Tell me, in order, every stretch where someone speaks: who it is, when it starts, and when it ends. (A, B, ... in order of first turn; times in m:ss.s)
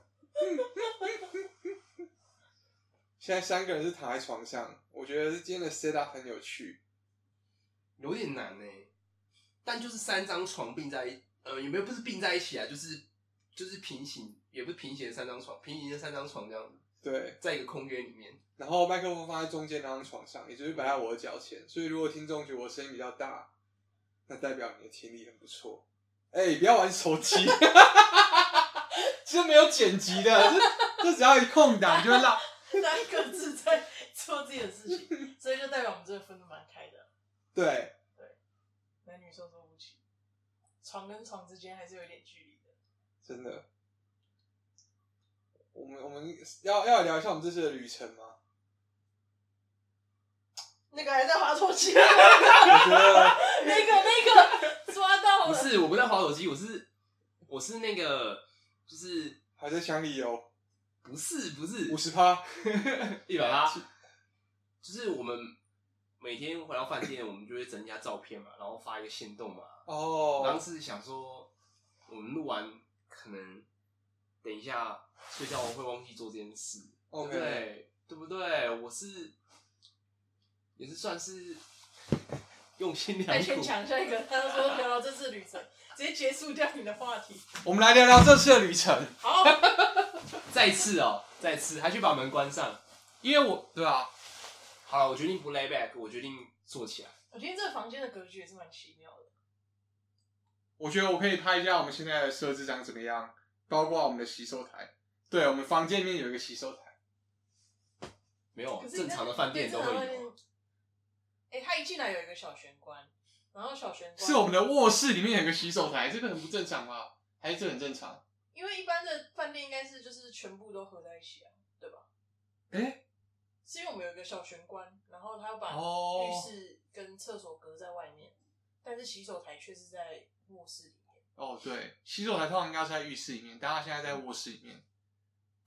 0:00.4-0:01.2 A
0:03.2-0:06.8 B
0:08.0-0:08.9 C
0:09.6-0:16.8 C
0:17.0-0:17.4 B
0:17.4-0:18.4 C
0:18.6-0:23.5 B
0:24.3-0:32.4 B
0:30.3-0:31.0 A
0:31.9-0:37.1 A
0:37.5-0:37.9 B
0:39.0-0:40.0 A
0:40.8-0:42.7 A
0:43.2-0:43.6 B
0:45.7-0:48.4 B
0:50.9-0:55.7 A
0:52.6-0:53.4 B
0:55.4-0:56.9 C
0:57.5-0:59.4 C
0:59.6-1:00.5 B
1:01.0-1:02.0 C
1:01.9-1:02.5 B
1:02.6-1:03.8 C
1:04.8-1:05.5 C
1:06.2-1:09.8 C
1:09.9-1:10.6 B
1:10.4-1:11.5 C
1:12.1-1:13.7 C
1:14.4-1:19.3 C
1:17.1-1:17.6 B
1:20.8-1:21.6 C
1:22.8-1:23.7 C
1:23.3-1:27.4 A
1:27.6-1:29.6 B
1:29.2-1:30.0 A
1:30.5-1:32.8 C
1:33.2-1:34.1 B
1:34.8-1:37.1 C
1:37.3-1:39.3 A
1:40.8-1:46.9 B
1:48.5-1:50.2 C
1:48.8-1:50.4 A
1:51.5-1:54.6 A
1:54.2-1:58.2 B
1:58.5-2:02.0 A
2:02.7-2:03.0 B
2:03.6-2:11.2 A
2:05.7-2:06.5 B
2:11.4-2:14.8 B